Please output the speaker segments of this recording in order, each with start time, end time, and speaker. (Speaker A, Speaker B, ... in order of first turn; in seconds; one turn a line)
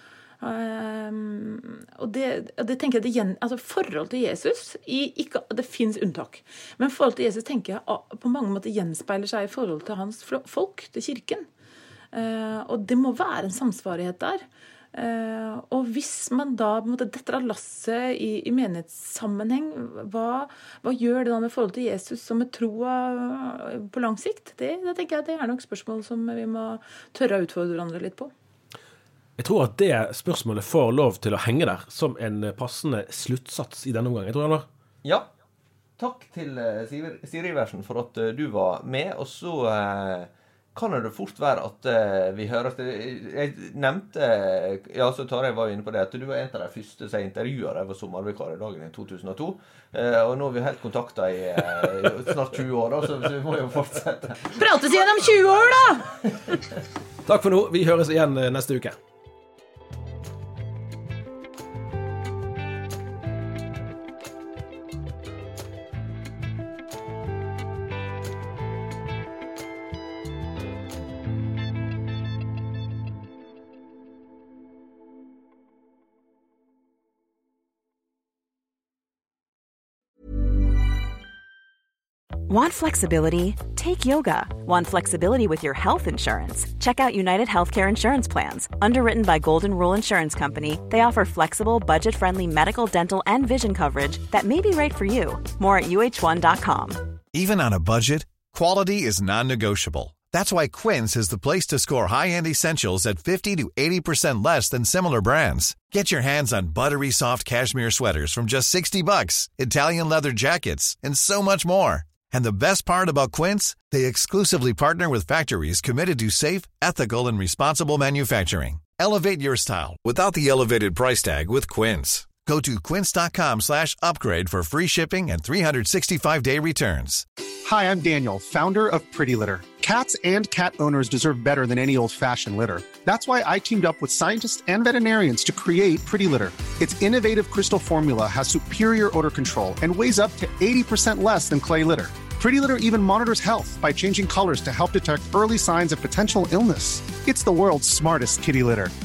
Speaker A: 0.4-11.5
Speaker A: 12.1-14.4
Speaker A: 14.9-28.3
Speaker B: 29.4-34.6
Speaker C: 36.0-54.6
Speaker A: 54.5-56.1
Speaker B: 57.2-58.9
Speaker D: 82.5-97.1
Speaker E: 97.3-127.2
Speaker F: 127.6-148.9